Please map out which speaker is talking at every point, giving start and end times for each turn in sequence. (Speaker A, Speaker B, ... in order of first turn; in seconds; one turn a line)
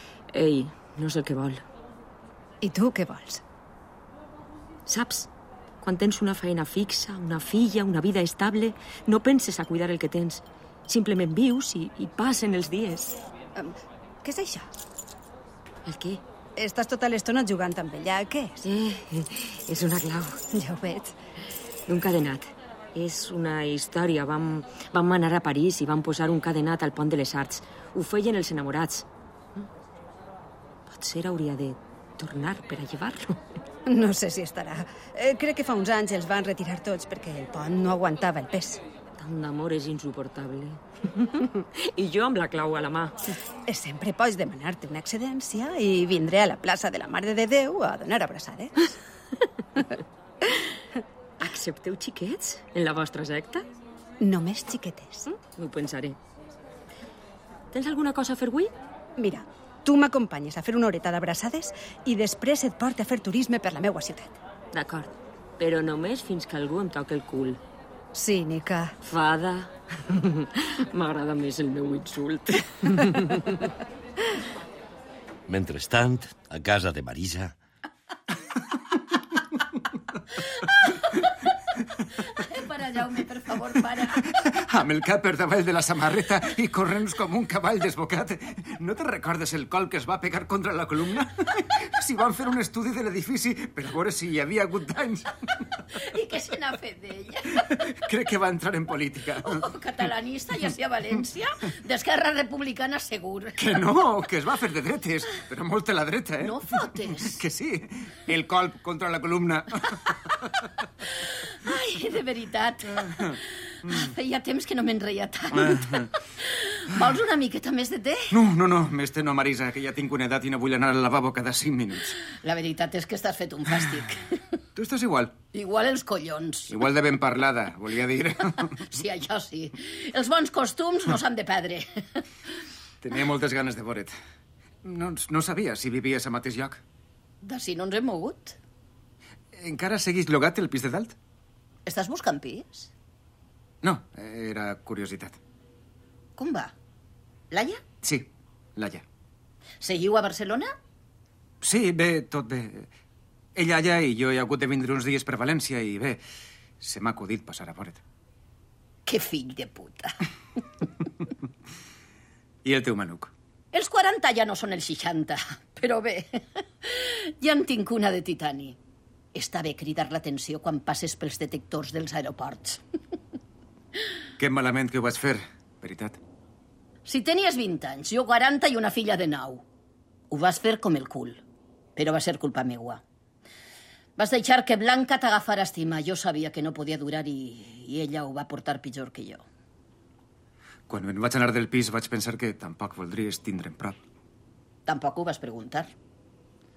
Speaker A: 0.3-1.6
Speaker B: 2.6-3.4
Speaker A: 4.9-5.3
Speaker A: 5.8-13.2
Speaker B: 13.6-14.7
Speaker A: 15.9-16.2
Speaker B: 16.6-18.6
Speaker A: 18.6-20.4
Speaker B: 20.5-21.2
Speaker A: 21.9-29.1
Speaker A: 30.9-33.4
Speaker B: 33.9-38.8
Speaker A: 39.2-43.3
Speaker B: 43.7-49.0
Speaker A: 51.4-53.7
Speaker B: 54.2-55.3
Speaker A: 55.3-56.2
Speaker A: 57.7-58.7
Speaker B: 59.2-64.4
Speaker A: 64.7-67.6
Speaker B: 68.2-68.9
Speaker A: 69.0-73.7
Speaker C: 75.5-77.5
Speaker D: 80.4-81.5
Speaker D: 82.1-84.4
Speaker E: 84.5-95.7
Speaker D: 95.9-97.7
Speaker E: 97.7-99.6
Speaker D: 99.4-103.6
Speaker E: 103.6-110.0
Speaker D: 106.4-107.4
Speaker D: 111.3-118.4
Speaker E: 115.7-116.1
Speaker E: 118.3-122.2
Speaker D: 122.3-124.4
Speaker E: 124.8-125.3
Speaker D: 125.5-126.7
Speaker E: 126.7-128.8
Speaker D: 128.8-132.2
Speaker E: 133.0-134.1
Speaker E: 134.8-136.8
Speaker D: 137.4-138.6
Speaker E: 139.5-141.2
Speaker D: 141.9-142.9
Speaker E: 143.8-145.4
Speaker D: 146.4-146.7
Speaker D: 147.5-147.8
Speaker E: 148.0-149.1
Speaker D: 149.8-150.7
Speaker E: 151.6-152.9
Speaker E: 153.6-156.2
Speaker E: 156.8-158.0
Speaker D: 159.1-160.1
Speaker E: 162.7-163.3
Speaker D: 163.7-168.8
Speaker D: 169.3-172.8
Speaker E: 174.4-176.2
Speaker D: 177.1-179.6
Speaker D: 180.3-181.4
Speaker D: 182.0-183.0
Speaker D: 184.2-189.4
Speaker E: 190.9-194.0
Speaker D: 194.9-195.9